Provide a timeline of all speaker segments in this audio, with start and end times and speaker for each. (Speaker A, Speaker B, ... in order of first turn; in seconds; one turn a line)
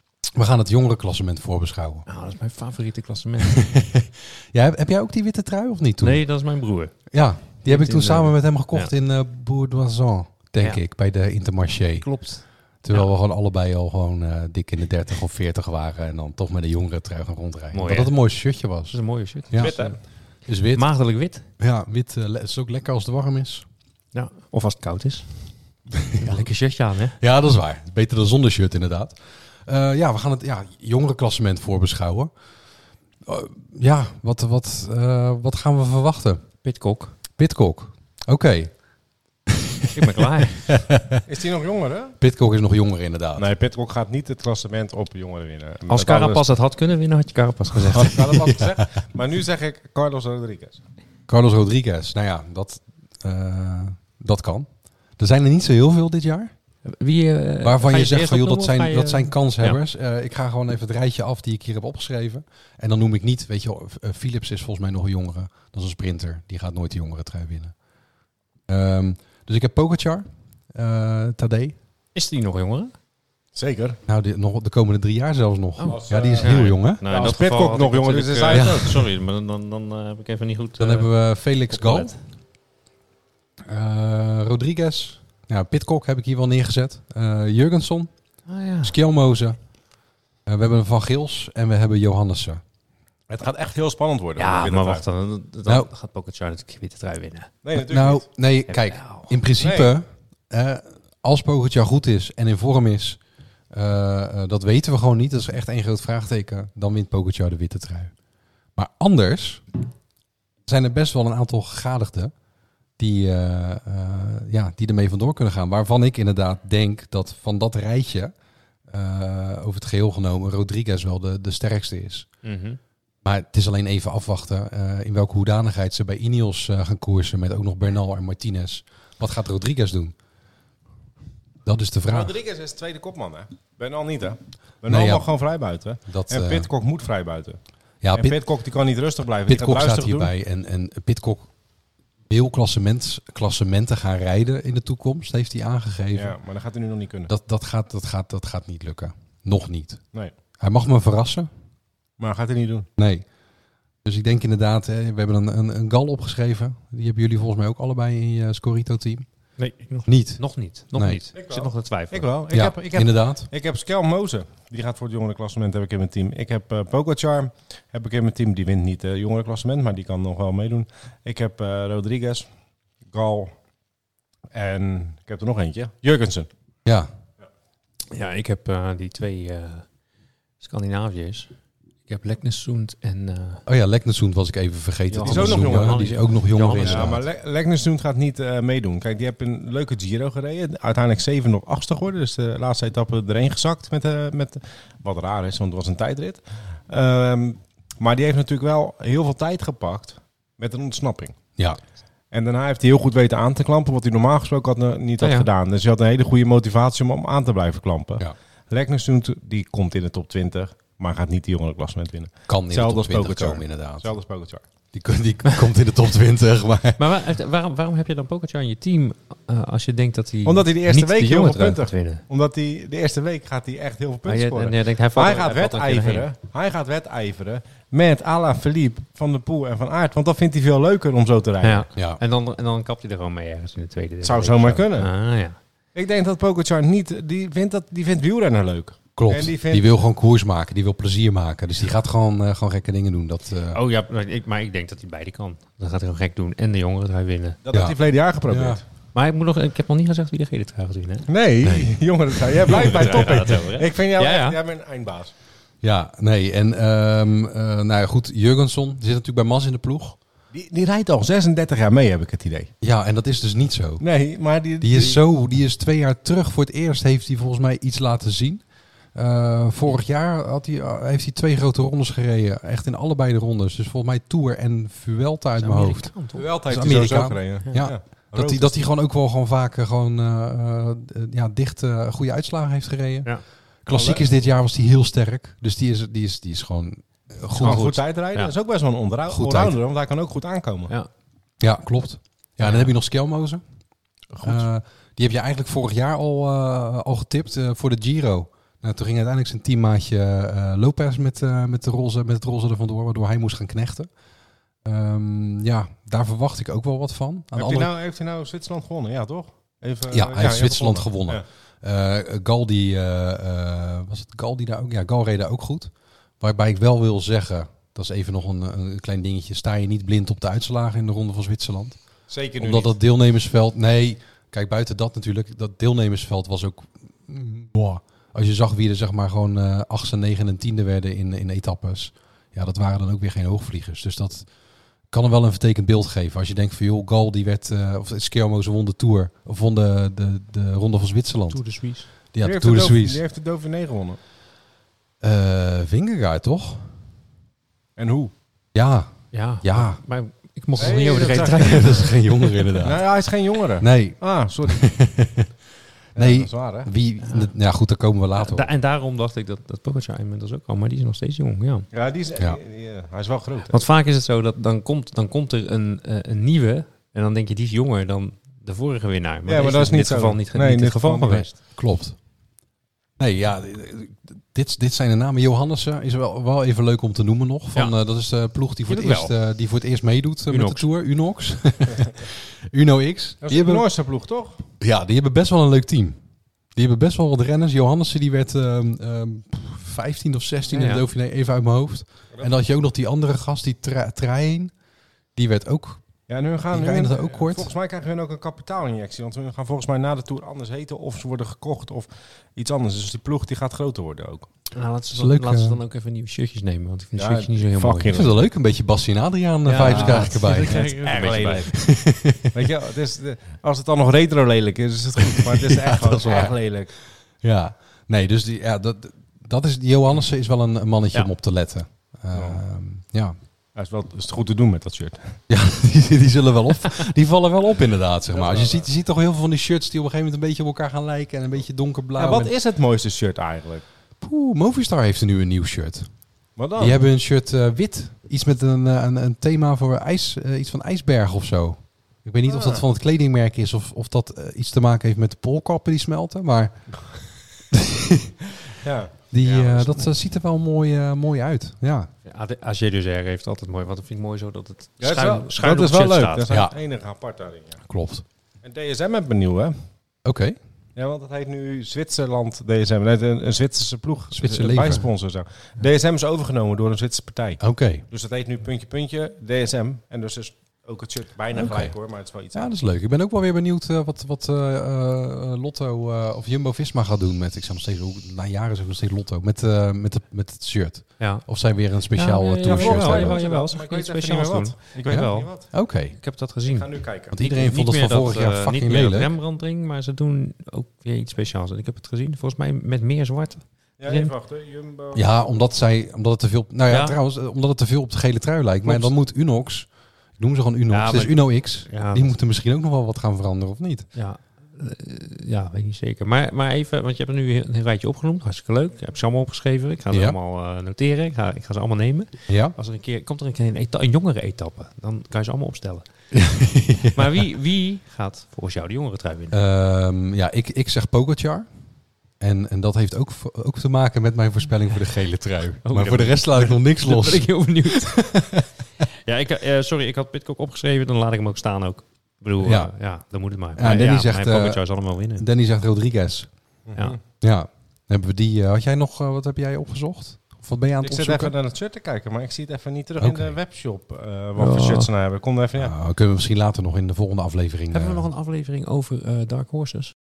Speaker A: 0.3-2.0
Speaker B: 2.0-3.7
Speaker A: 3.4-6.2
Speaker B: 6.0-6.9
Speaker A: 7.1-12.1
Speaker B: 7.6-8.9
Speaker B: 10.6-10.8
Speaker B: 12.0-13.1
Speaker A: 12.8-19.0
Speaker B: 17.7-20.0
Speaker A: 19.5-19.8
Speaker C: 19.6-20.0
Speaker A: 20.4-20.9
Speaker B: 20.7-21.4
Speaker A: 21.6-23.6
Speaker B: 24.1-25.3
Speaker B: 26.1-27.2
Speaker A: 27.2-32.3
Speaker A: 33.2-36.4
Speaker B: 36.6-37.1
Speaker A: 37.4-38.7
Speaker A: 39.5-41.2
Speaker B: 39.9-40.8
Speaker C: 41.2-42.1
Speaker A: 42.2-43.5
Speaker C: 43.4-46.5
Speaker B: 45.9-48.3
Speaker C: 47.9-50.8
Speaker A: 48.3-48.8
Speaker A: 51.3-54.7
Speaker A: 55.2-56.5
Speaker B: 56.9-59.8
Speaker A: 57.6-67.7
Speaker A: 68.7-71.7
Speaker B: 72.1-72.9
Speaker C: 73.5-74.0
Speaker A: 74.1-77.0
Speaker B: 75.8-82.1
Speaker C: 75.9-79.0
Speaker A: 78.5-79.0
Speaker A: 80.8-82.2
Speaker A: 83.7-88.1
Speaker B: 88.5-88.9
Speaker A: 88.8-89.6
Speaker A: 90.5-92.6
Speaker C: 93.3-95.0
Speaker B: 94.3-97.5
Speaker C: 97.6-98.2
Speaker A: 97.7-103.2
Speaker B: 98.7-99.4
Speaker C: 99.6-99.9
Speaker A: 103.7-108.1
Speaker A: 108.8-109.6
Speaker A: 110.7-112.3
Speaker A: 113.0-118.3
Speaker A: 118.9-122.3
Speaker B: 122.4-122.8
Speaker A: 123.2-130.1
Speaker A: 131.6-132.3
Speaker C: 132.1-137.6
Speaker A: 134.9-135.3
Speaker A: 136.1-136.7
Speaker A: 138.0-138.4
Speaker C: 138.1-140.3
Speaker A: 139.5-141.5
Speaker A: 142.3-146.4
Speaker C: 146.1-147.3
Speaker A: 147.3-150.0
Speaker A: 150.6-151.5
Speaker C: 152.2-152.9
Speaker A: 153.0-153.2
Speaker A: 154.0-159.2
Speaker B: 159.6-162.3
Speaker A: 160.1-161.2
Speaker C: 161.3-172.5
Speaker A: 162.5-163.5
Speaker C: 173.1-173.5
Speaker C: 174.5-176.5
Speaker B: 178.1-179.8
Speaker B: 180.6-181.5
Speaker B: 182.1-183.6
Speaker A: 183.7-187.2
Speaker B: 185.1-187.2
Speaker C: 185.2-186.0
Speaker C: 186.8-201.3
Speaker C: 202.3-214.6
Speaker B: 205.2-205.5
Speaker A: 212.5-214.1
Speaker A: 214.9-217.1
Speaker B: 217.0-222.2
Speaker C: 220.4-231.8
Speaker B: 224.2-226.3
Speaker B: 231.6-235.6
Speaker A: 231.9-232.2
Speaker C: 234.2-235.1
Speaker C: 235.9-239.9
Speaker A: 239.2-243.8
Speaker B: 243.7-247.6
Speaker C: 247.6-248.8
Speaker A: 247.7-248.0
Speaker A: 248.5-248.8
Speaker B: 249.1-251.9
Speaker C: 251.3-255.3
Speaker B: 252.5-254.6
Speaker A: 255.8-260.2
Speaker C: 260.5-262.7
Speaker A: 262.8-264.0
Speaker C: 264.0-265.2
Speaker A: 264.8-268.6
Speaker A: 269.1-288.0
Speaker B: 275.6-276.5
Speaker C: 276.3-278.8
Speaker C: 283.9-284.2
Speaker B: 287.6-288.5
Speaker C: 287.6-290.9
Speaker A: 289.3-289.8
Speaker A: 291.6-293.6
Speaker B: 292.6-292.9
Speaker C: 294.3-294.6
Speaker A: 294.4-304.1
Speaker A: 304.8-307.9
Speaker C: 307.5-311.4
Speaker A: 310.1-322.0
Speaker C: 322.3-322.9
Speaker A: 322.6-334.5
Speaker A: 335.1-341.6
Speaker B: 341.5-342.1
Speaker A: 342.3-343.2
Speaker C: 342.4-344.2
Speaker A: 345.2-346.9
Speaker C: 348.0-348.3
Speaker A: 348.7-349.1
Speaker B: 349.3-352.9
Speaker A: 349.6-350.0
Speaker C: 350.8-352.1
Speaker A: 351.2-353.0
Speaker C: 352.8-354.8
Speaker A: 353.8-355.5
Speaker C: 356.1-356.9
Speaker A: 356.1-358.7
Speaker B: 357.2-357.5
Speaker B: 358.3-361.9
Speaker C: 361.9-363.8
Speaker B: 363.6-371.5
Speaker C: 369.4-371.5
Speaker A: 371.6-372.1
Speaker A: 373.2-383.9
Speaker B: 378.8-379.3
Speaker B: 380.5-380.9
Speaker C: 383.4-384.6
Speaker A: 384.8-386.2
Speaker A: 386.7-394.7
Speaker B: 390.7-391.0
Speaker A: 395.4-396.0
Speaker C: 396.3-404.5
Speaker A: 396.7-397.7
Speaker B: 404.7-408.3
Speaker A: 405.1-405.8
Speaker C: 407.1-408.4
Speaker A: 408.1-410.9
Speaker B: 409.6-411.8
Speaker C: 409.8-411.7
Speaker A: 411.7-412.7
Speaker C: 412.5-416.9
Speaker A: 415.2-416.5
Speaker A: 417.4-423.4
Speaker C: 422.3-422.6
Speaker C: 423.8-425.3
Speaker A: 425.5-432.5
Speaker C: 428.3-428.8
Speaker C: 432.2-433.8
Speaker A: 434.2-436.1
Speaker C: 436.6-437.0
Speaker A: 436.8-447.2
Speaker C: 442.5-442.8
Speaker A: 447.7-448.4
Speaker C: 448.8-449.2
Speaker A: 449.3-452.1
Speaker B: 449.4-450.1
Speaker B: 452.2-456.6
Speaker C: 455.0-457.8
Speaker A: 456.5-456.7
Speaker A: 457.9-458.2
Speaker C: 458.6-459.7
Speaker A: 460.2-460.6
Speaker C: 460.9-472.8
Speaker A: 464.3-465.1
Speaker A: 467.6-468.0
Speaker A: 471.5-471.9
Speaker A: 472.5-483.4
Speaker B: 481.2-481.4
Speaker B: 482.1-494.3
Speaker C: 482.6-485.7
Speaker A: 485.1-486.2
Speaker C: 486.7-487.4
Speaker A: 487.3-489.3
Speaker C: 494.0-495.2
Speaker A: 495.1-504.1
Speaker B: 496.9-497.2
Speaker B: 498.8-499.1
Speaker B: 500.9-502.4
Speaker B: 504.1-516.0
Speaker A: 510.1-510.4
Speaker A: 512.5-512.8
Speaker A: 516.3-517.3
Speaker B: 517.1-519.6
Speaker A: 519.5-521.7
Speaker A: 522.4-528.6
Speaker B: 525.8-535.5
Speaker A: 532.6-532.9
Speaker A: 533.8-536.5
Speaker C: 536.9-537.1
Speaker A: 537.4-541.5
Speaker C: 541.0-545.9
Speaker A: 543.2-543.5
Speaker B: 544.6-545.1
Speaker A: 545.8-548.3
Speaker B: 547.9-550.1